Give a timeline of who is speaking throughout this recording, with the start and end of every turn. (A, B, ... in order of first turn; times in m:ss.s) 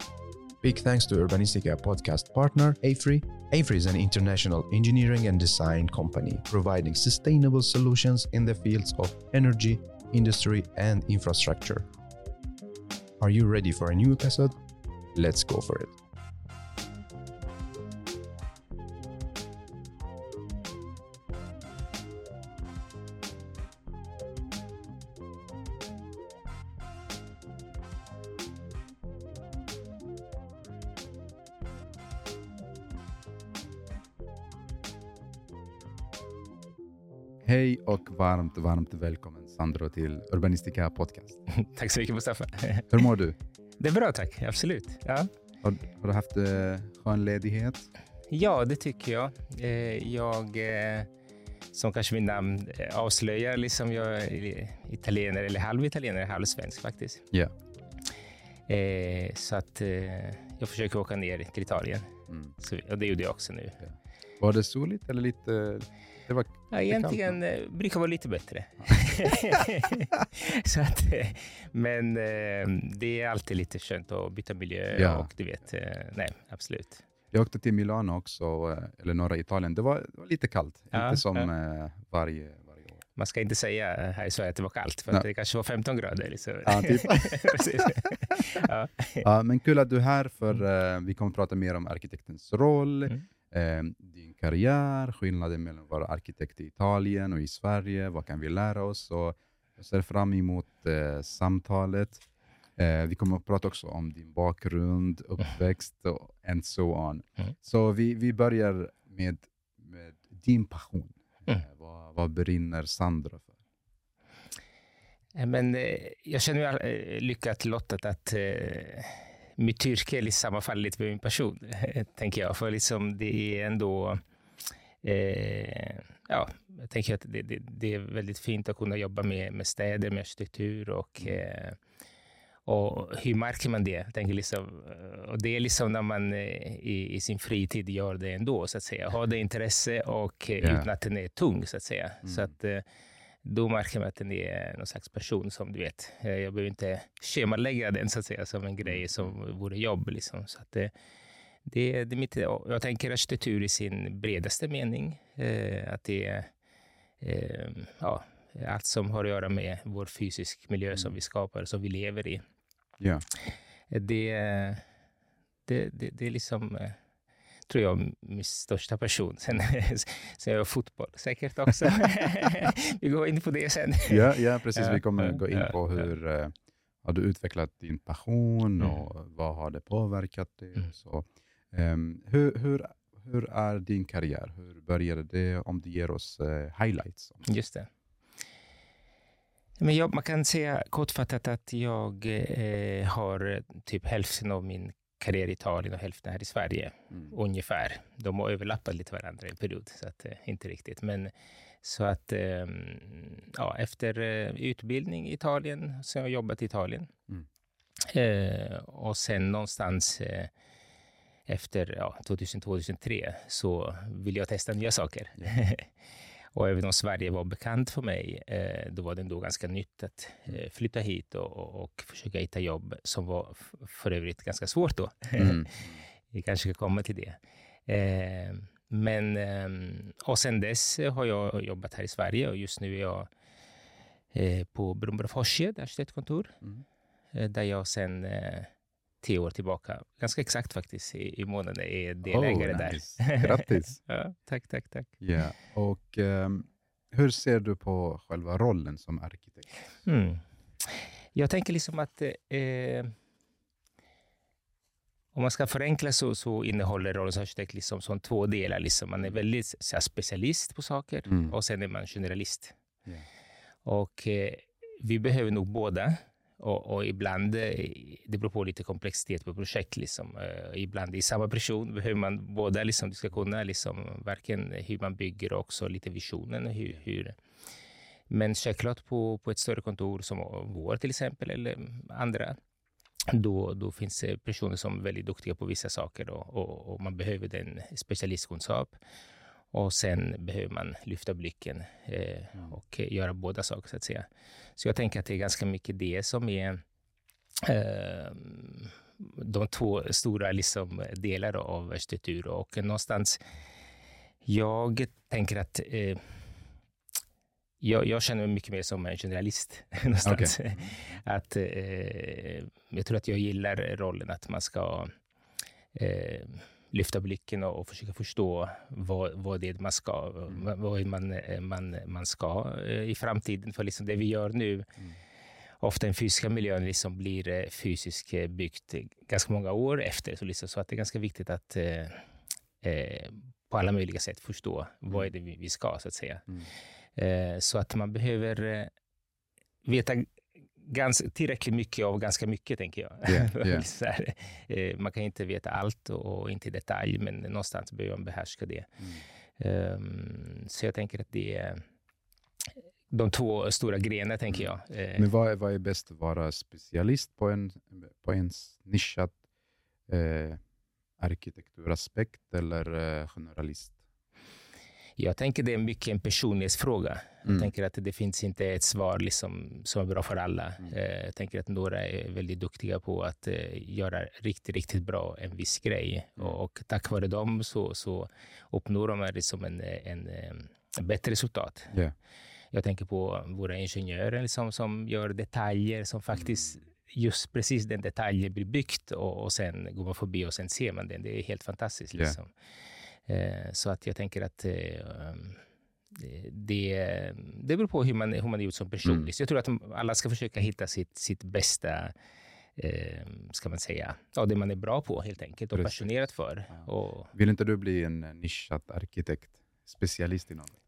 0:00.6-0:11.9 A
0:13.2-0:14.6 A
0:15.1-0:16.0 A
0:37.4-0:41.4 B
0:41.5-0:43.0 C
0:42.9-0:43.4 B
0:43.8-0:45.3 C
0:45.6-0:47.9 B
0:48.3-0:51.1 C
0:51.7-0:57.3 C
0:58.7-1:03.8 C
1:03.8-1:07.4 B
1:06.7-1:17.0 C
1:15.0-1:15.3 B
1:17.3-1:23.0 B
1:20.9-1:21.5 C
1:23.2-1:29.2 C
1:26.6-1:27.9 B
1:29.2-1:42.2 B
1:42.8-1:53.5 B
1:55.4-2:04.2 C
2:05.0-2:11.8 C
2:12.7-2:22.8 C
2:20.6-2:20.9 B
2:22.2-2:22.5 B
2:23.4-2:30.9 C
2:28.8-2:29.3 B
2:31.7-2:36.5 C
2:37.2-2:42.4 C
2:43.9-2:44.8 C
2:45.7-2:47.0 C
2:47.7-2:55.7 C
2:54.1-2:56.5 B
2:57.0-3:07.4 B
3:07.4-3:07.9 C
3:09.8-3:21.3 C
3:21.8-3:27.1 C
3:28.1-3:30.5 C
3:31.5-3:35.9 C
3:36.5-3:53.3 C
3:45.4-3:46.0 B
3:54.3-3:56.6 C
3:57.3-3:58.7 C
3:59.2-4:05.2 C
4:02.2-4:04.0 B
4:05.2-4:09.7 B
4:10.0-4:13.1 C
4:15.3-4:22.8 C
4:21.3-4:21.5 B
4:23.8-4:37.4 C
4:38.3-4:42.6 C
4:43.3-4:49.0 C
4:49.7-4:56.8 C
4:57.6-5:03.4 C
5:04.4-5:06.2 C
5:07.8-5:15.1 C
5:10.2-5:11.0 B
5:15.9-5:24.9 C
5:25.8-5:32.2 C
5:32.8-5:36.5 C
5:37.2-5:38.9 C
5:39.8-5:48.9 C
5:43.3-5:43.9 B
5:49.6-5:51.8 C
5:53.1-5:55.2 C
5:54.5-5:59.4 B
6:00.1-6:00.6 B
6:01.2-6:04.0 B
6:05.2-6:21.9 C
6:07.4-6:07.7 B
6:22.7-6:32.5 C
6:33.3-6:35.6 C
6:36.1-6:42.1 C
6:39.0-6:39.3 B
6:42.8-6:47.3 C
6:45.7-6:50.8 B